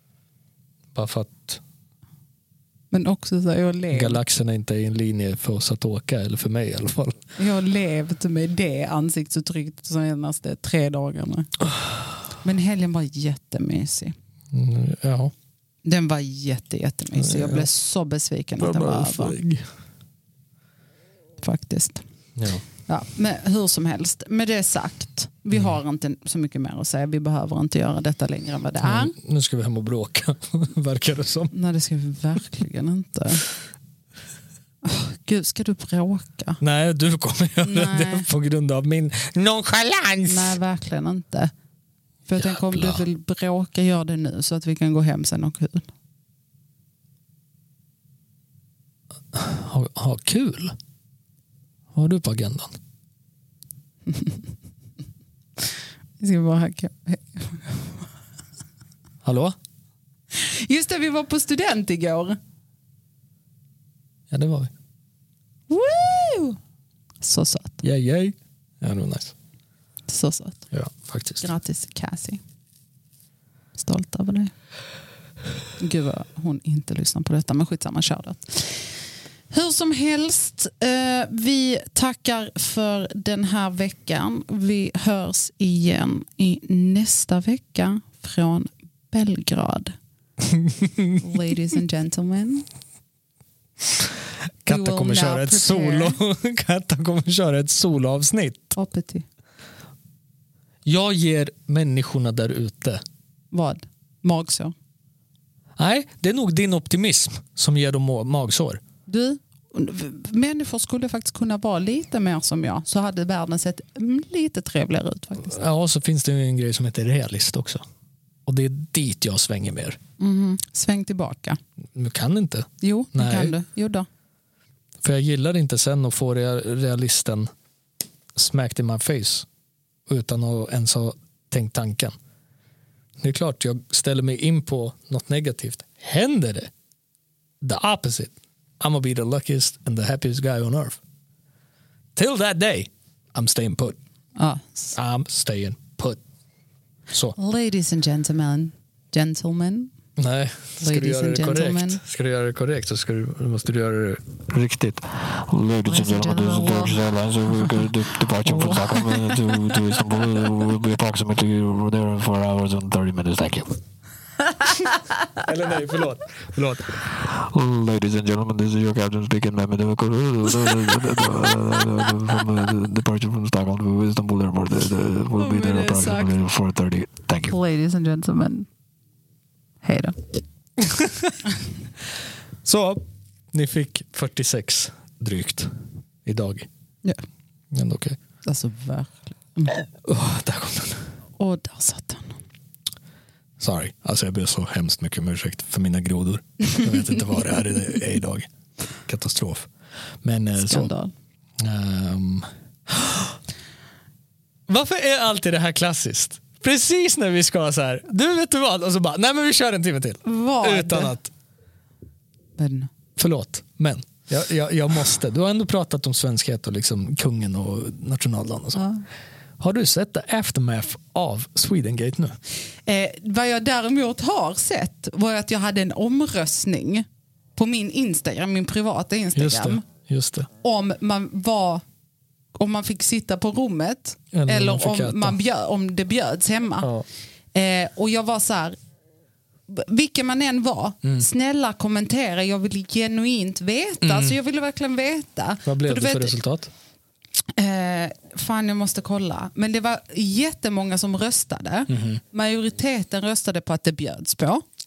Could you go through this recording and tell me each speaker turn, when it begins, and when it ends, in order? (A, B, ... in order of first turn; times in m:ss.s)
0:00.9-0:01.6 A
0:02.9-0:04.2 B
0:03.9-0:07.2 A
0:07.4-0:11.5 B
0:12.4-0:14.1 B
0:14.5-0:15.3 A
0:15.8-0:19.4 B
0:17.2-0:17.7 A
0:18.6-0:19.7 A
0:21.4-0:22.0 B
0:22.4-0:22.6 A
0:22.9-0:29.1 B
0:28.8-0:31.5 A
0:31.5-0:33.4 B
0:34.8-0:36.6 B
0:36.6-0:40.6 A
0:37.6-0:38.3 B
0:40.2-0:41.5 B
0:42.3-0:45.9 B
0:42.5-0:43.0 A
0:49.3-0:50.7 A
0:51.9-0:52.7 A
0:54.1-0:54.4 B
0:56.2-0:58.1 B
0:59.2-0:59.6 A
1:00.3-1:02.4 B
1:04.3-1:04.7 A
1:05.7-1:06.6 B
1:07.2-1:07.8 B
1:07.8-1:09.3 A
1:10.1-1:10.7 B
1:10.7-1:11.5 A
1:11.4-1:12.4 B
1:13.8-1:14.5 B
1:15.8-1:19.0 B
1:19.5-1:30.0 B
1:30.5-1:31.1 A
1:31.2-1:32.6 B
1:34.6-1:38.8 A
1:34.7-1:36.2 B
1:38.7-1:39.2 B
1:40.8-1:43.0 A
1:43.5-1:44.7 B
1:45.8-1:48.8 A
1:49.1-1:55.6 B
1:55.4-1:57.8 A
1:58.4-2:00.0 A
2:00.2-2:01.6 B
2:01.9-2:03.5 A
2:02.8-2:04.1 B
2:05.0-2:07.5 A
2:08.3-2:09.5 A
2:10.1-2:12.2 A
2:13.2-2:16.7 A
2:17.6-2:21.0 A
2:22.1-2:24.0 A
2:24.4-2:24.9 B
2:24.9-2:26.2 A
2:27.1-2:27.4 A
2:27.4-2:29.9 B
2:30.2-2:35.0 A
2:30.8-2:32.0 B
2:35.1-2:43.8 C
2:35.9-2:36.9 B
2:45.4-2:46.8 A
2:47.0-2:57.5 C
2:55.4-2:56.3 B
2:57.4-2:58.7 B
2:59.8-3:00.2 B
3:00.9-3:01.3 A
3:02.6-3:05.7 A
3:06.2-3:06.7 A
3:07.7-3:08.2 A
3:08.4-3:09.8 B
3:10.0-3:11.1 A
3:11.4-3:12.4 B
3:13.6-3:18.5 A
3:19.0-3:19.7 A
3:20.2-3:20.9 A
3:20.6-3:21.1 B
3:21.6-3:23.3 A
3:24.7-3:31.3 A
3:30.2-3:31.1 B
3:32.6-3:32.9 B
3:33.2-3:38.9 A
3:39.6-3:42.4 A
3:42.8-3:49.8 B
3:49.3-3:50.5 A
3:50.6-3:51.8 B
3:52.6-3:56.9 B
3:54.3-3:55.4 A
3:57.5-3:58.8 B
3:59.7-4:06.4 B
4:04.0-4:04.4 A
4:05.6-4:06.7 A
4:07.5-4:14.6 B
4:11.9-4:12.2 A